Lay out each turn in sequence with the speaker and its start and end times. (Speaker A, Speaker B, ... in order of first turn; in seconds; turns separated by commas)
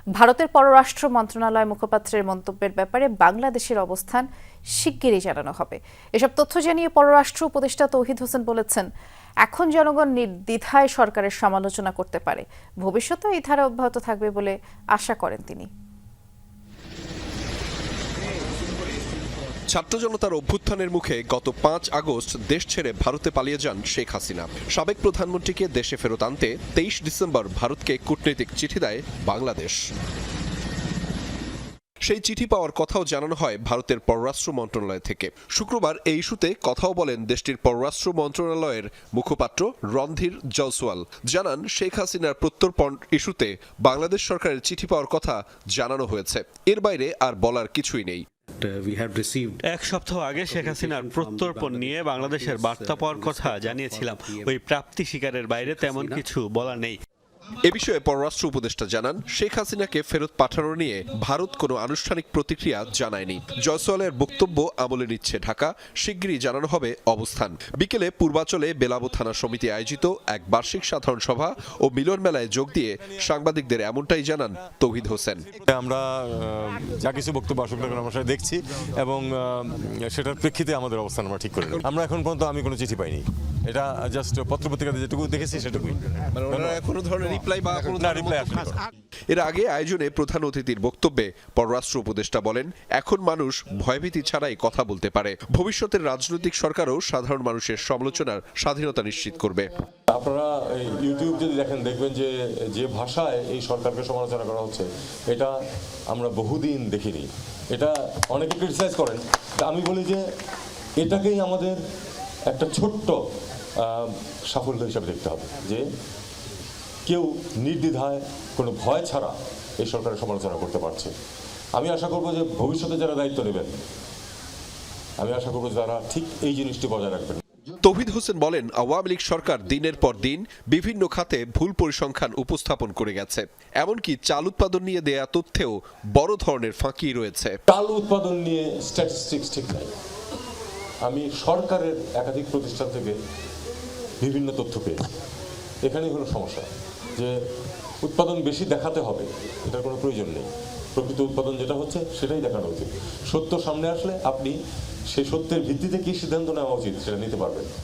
Speaker A: 0.1-8.9, Speaker A: 9.4-15.7, Speaker B: 19.7-29.8, Speaker B: 32.0-48.2, Speaker C: 48.5-54.6, Speaker D: 49.6-57.0, Speaker C: 55.5-56.2, Speaker B: 57.6-75.5, Speaker E: 75.5-86.8, Speaker B: 86.3-88.7, Speaker E: 87.9-88.8, Speaker B: 89.3-99.7, Speaker E: 100.1-105.5, Speaker E: 106.1-110.2, Speaker E: 111.0-111.8, Speaker E: 112.5-113.2, Speaker E: 113.8-115.8, Speaker E: 117.0-121.1, Speaker E: 121.8-123.7, Speaker E: 125.2-127.4, Speaker B: 127.8-137.6, Speaker E: 137.7-139.9, Speaker E: 141.0-143.2, Speaker E: 144.2-145.1, Speaker E: 145.8-147.3, Speaker E: 148.0-154.6, Speaker E: 155.1-157.7